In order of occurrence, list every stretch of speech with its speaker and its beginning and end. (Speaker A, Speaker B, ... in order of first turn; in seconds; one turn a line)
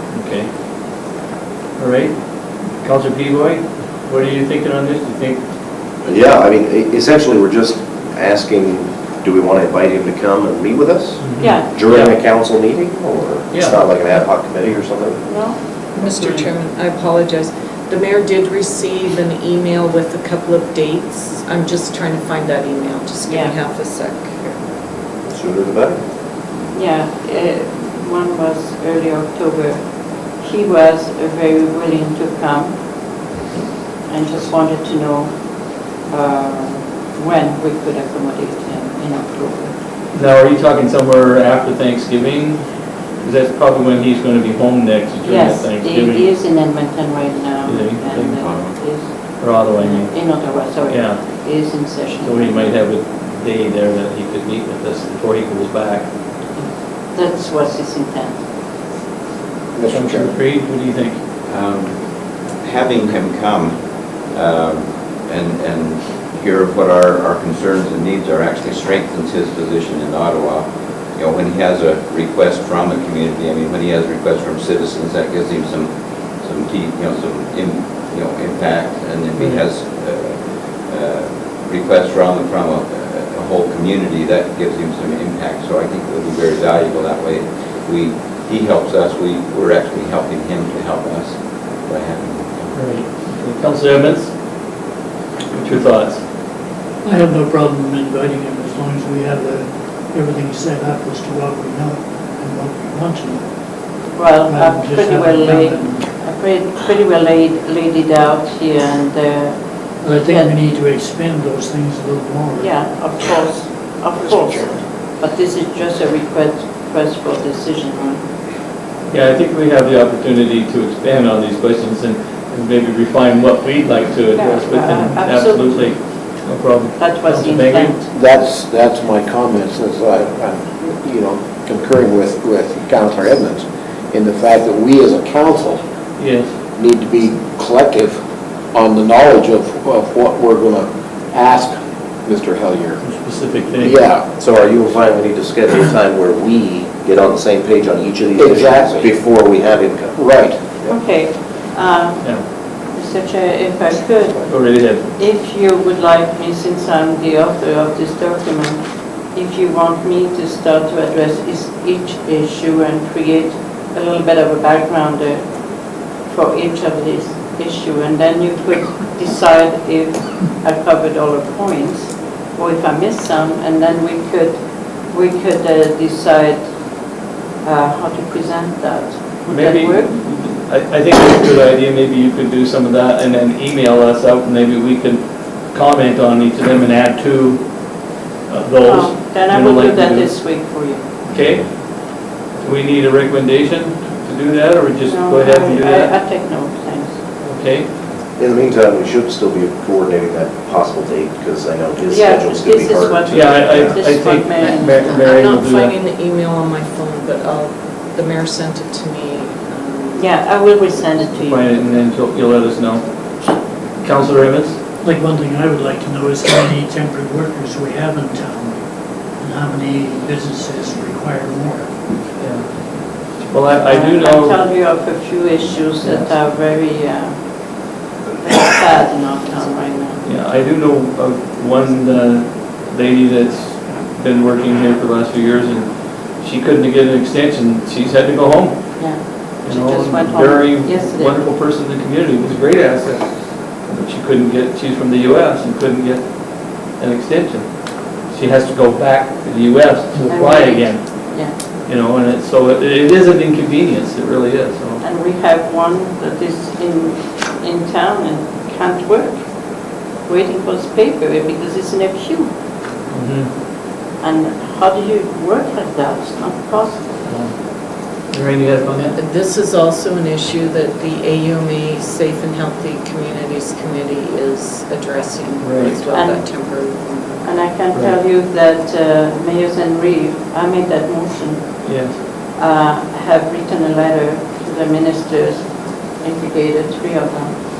Speaker A: 0.1-0.5
Speaker A: 1.8-2.2
Speaker A: 2.8-5.4
Speaker B: 6.0-15.2
Speaker A: 11.2-12.2
Speaker C: 11.4-11.7
Speaker A: 13.5-13.8
Speaker C: 15.3-15.6
Speaker D: 15.9-24.6
Speaker A: 16.1-16.5
Speaker C: 23.2-23.5
Speaker B: 25.3-26.0
Speaker C: 26.7-29.8
Speaker C: 30.4-32.7
Speaker C: 34.1-35.3
Speaker C: 36.1-39.7
Speaker A: 40.1-42.6
Speaker A: 43.2-46.3
Speaker C: 45.2-52.8
Speaker A: 47.7-48.4
Speaker E: 48.4-48.8
Speaker A: 49.4-50.1
Speaker A: 50.9-51.3
Speaker A: 52.2-56.1
Speaker C: 56.5-58.4
Speaker F: 59.7-60.3
Speaker A: 59.9-61.2
Speaker E: 61.5-92.9
Speaker A: 92.7-94.3
Speaker A: 95.5-96.2
Speaker G: 97.0-103.4
Speaker C: 104.1-110.5
Speaker G: 104.5-106.1
Speaker G: 110.0-112.7
Speaker C: 112.5-118.2
Speaker A: 119.1-128.0
Speaker C: 124.3-125.9
Speaker C: 126.9-128.0
Speaker F: 128.1-135.8
Speaker A: 136.2-136.5
Speaker F: 136.8-138.2
Speaker F: 138.7-143.0
Speaker A: 143.0-143.9
Speaker F: 143.8-144.3
Speaker B: 144.3-150.2
Speaker F: 148.4-149.1
Speaker F: 150.1-150.6
Speaker C: 150.8-158.8
Speaker A: 154.5-155.0
Speaker C: 159.3-165.4
Speaker C: 166.3-174.6
Speaker C: 175.1-176.7
Speaker C: 177.6-180.1
Speaker A: 179.5-187.7
Speaker A: 188.5-190.5
Speaker C: 188.8-191.0
Speaker A: 191.2-191.7
Speaker A: 192.4-196.1
Speaker C: 195.1-197.1
Speaker A: 197.4-197.9
Speaker B: 198.3-204.0
Speaker C: 202.1-205.1
Speaker A: 203.3-205.9
Speaker D: 204.6-210.3
Speaker C: 210.2-211.7
Speaker A: 211.4-213.1
Speaker A: 214.0-214.8
Speaker G: 215.0-218.8
Speaker G: 219.4-221.9
Speaker A: 222.4-222.8
Speaker A: 223.4-224.6
Speaker C: 223.9-227.3
Speaker A: 226.0-226.3
Speaker C: 228.4-230.2
Speaker A: 230.2-255.0
Speaker C: 239.0-241.4
Speaker C: 250.2-251.6
Speaker C: 255.0-259.4
Speaker C: 260.3-262.5
Speaker A: 263.1-263.5
Speaker C: 264.2-267.0
Speaker A: 267.2-267.5
Speaker A: 268.3-269.1
Speaker D: 269.0-277.4
Speaker A: 275.6-276.0
Speaker C: 276.1-276.4
Speaker C: 277.4-285.7
Speaker A: 281.8-282.1
Speaker C: 286.2-287.6